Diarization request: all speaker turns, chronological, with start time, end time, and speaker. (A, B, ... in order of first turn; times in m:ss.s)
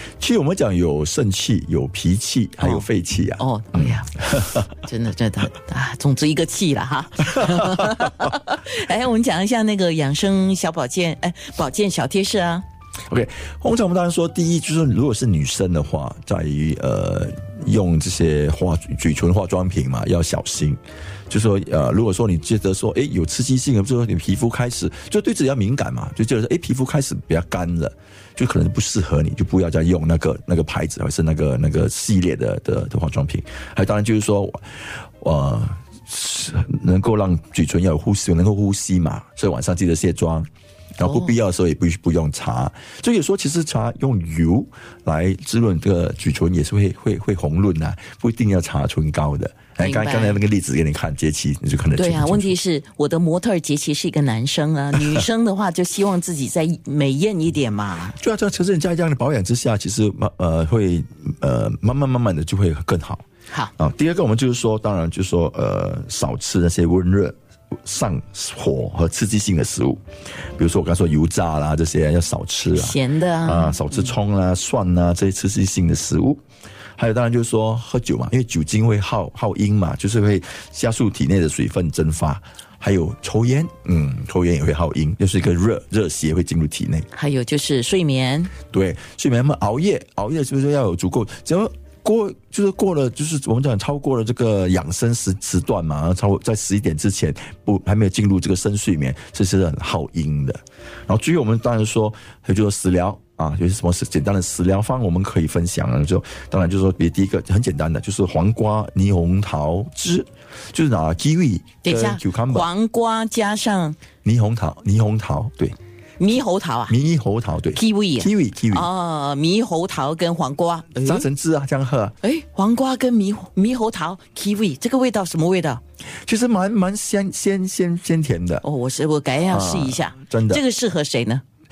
0:00.2-0:04.7 A
0:02.6-0:02.9 B
0:03.4-0:12.6 B
0:13.1-0:40.5 A
0:41.0-0:52.6 A
0:41.0-0:41.4 B
0:49.8-0:50.4 B
0:52.0-0:58.2 B
0:55.0-0:55.2 A
0:58.2-1:03.2 A
1:03.8-1:10.0 A
1:10.6-1:16.4 A
1:12.7-1:14.1 B
1:17.0-1:27.1 A
1:27.1-1:28.5 B
1:28.7-1:52.7 A
1:51.8-1:54.0 B
1:54.2-1:55.8 A
1:56.2-1:57.0 B
1:56.9-1:58.9 A
1:57.8-2:01.3 B
2:01.0-2:02.2 A
2:02.2-2:05.8 B
2:06.3-2:08.6 A
2:08.6-2:11.4 B
2:09.5-2:10.6 A